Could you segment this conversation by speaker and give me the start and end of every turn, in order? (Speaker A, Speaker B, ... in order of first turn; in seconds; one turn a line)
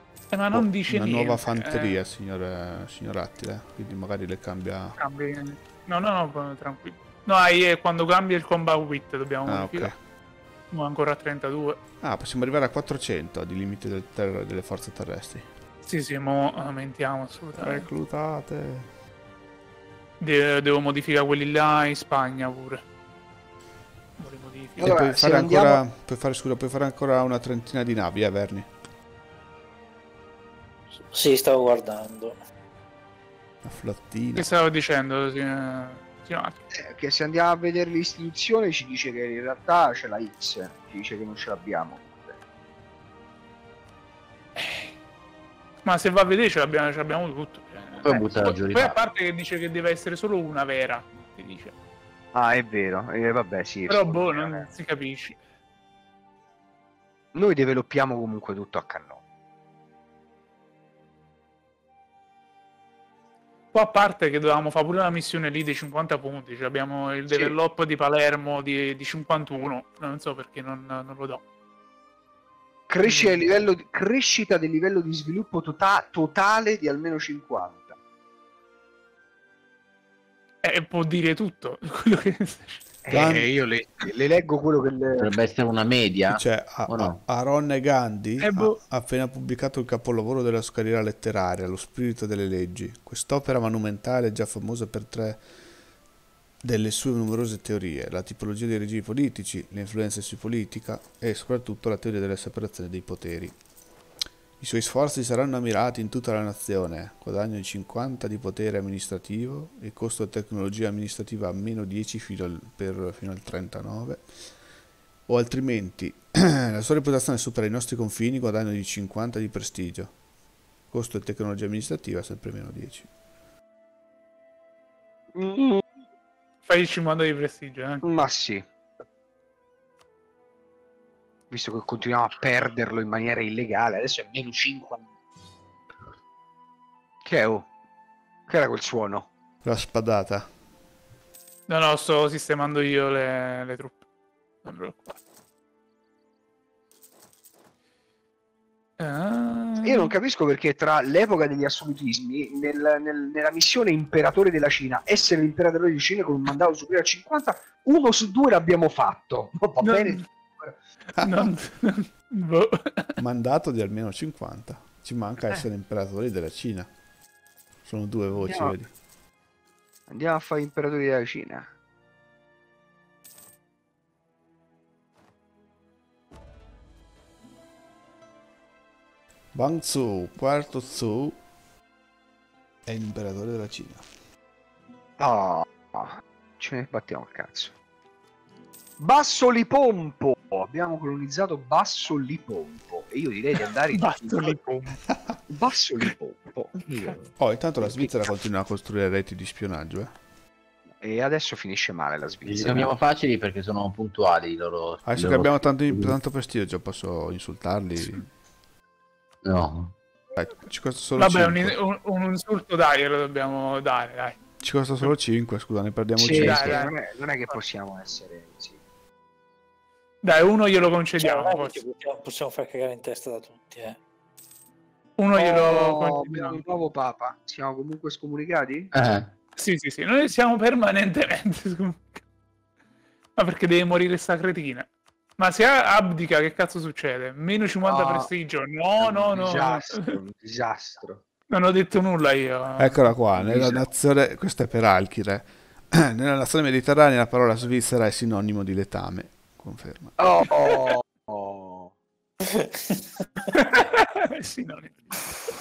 Speaker A: 0.3-2.0
Speaker B: 0.5-5.0
Speaker A: 5.0-9.9
Speaker B: 9.4-10.0
Speaker A: 10.7-11.8
Speaker B: 12.0-15.4
Speaker A: 15.9-17.9
Speaker B: 17.5-18.9
Speaker A: 20.2-22.8
Speaker A: 24.2-25.0
Speaker B: 24.8-28.7
Speaker C: 24.8-25.8
Speaker D: 31.1-32.4
Speaker B: 33.6-34.5
Speaker A: 34.3-36.5
Speaker C: 36.7-42.4
Speaker A: 44.5-44.9
Speaker A: 45.8-51.7
Speaker E: 48.0-49.0
Speaker C: 52.3-54.7
Speaker A: 53.9-55.4
Speaker C: 57.3-59.2
Speaker A: 63.7-71.4
Speaker C: 67.3-67.5
Speaker C: 72.9-77.9
Speaker A: 73.0-73.4
Speaker A: 80.6-82.8
Speaker C: 83.0-85.3
Speaker B: 83.1-83.5
Speaker E: 85.2-87.2
Speaker B: 86.3-95.4
Speaker A: 88.4-88.8
Speaker B: 96.6-103.5
Speaker B: 104.6-114.3
Speaker B: 115.3-120.1
Speaker B: 120.9-123.1
Speaker C: 125.3-125.8
Speaker A: 126.6-128.1
Speaker C: 128.0-128.6
Speaker C: 131.5-135.0
Speaker C: 137.2-137.7
Speaker C: 138.5-139.3
Speaker B: 139.6-140.5
Speaker A: 141.7-144.0
Speaker A: 144.6-145.2
Speaker A: 149.0-150.1
Speaker C: 149.8-160.8
Speaker A: 159.8-160.2
Speaker A: 161.2-163.1
Speaker B: 161.2-161.5
Speaker B: 163.2-166.9
Speaker B: 167.8-168.9
Speaker C: 168.3-168.8
Speaker C: 170.1-171.7
Speaker B: 179.5-181.4
Speaker B: 182.8-184.0
Speaker C: 185.2-187.7
Speaker C: 189.0-194.6
Speaker A: 193.5-195.0
Speaker B: 195.1-195.3
Speaker C: 195.5-198.1
Speaker B: 197.4-200.1
Speaker C: 201.0-202.9
Speaker E: 202.4-206.2
Speaker B: 205.0-208.3
Speaker E: 209.4-209.9
Speaker B: 210.3-211.8
Speaker A: 211.2-214.4
Speaker B: 214.6-216.4
Speaker C: 216.2-218.8
Speaker E: 216.3-216.8
Speaker A: 216.3-217.6
Speaker A: 220.2-221.8
Speaker D: 221.2-224.0
Speaker A: 225.2-226.6
Speaker C: 225.3-228.9
Speaker E: 228.9-229.3
Speaker A: 229.6-232.2
Speaker A: 233.4-240.1
Speaker C: 237.8-238.3
Speaker C: 239.0-241.2
Speaker A: 241.5-243.1
Speaker B: 242.8-250.1
Speaker C: 243.3-243.9
Speaker C: 250.2-251.9
Speaker D: 252.6-253.0
Speaker A: 253.5-255.0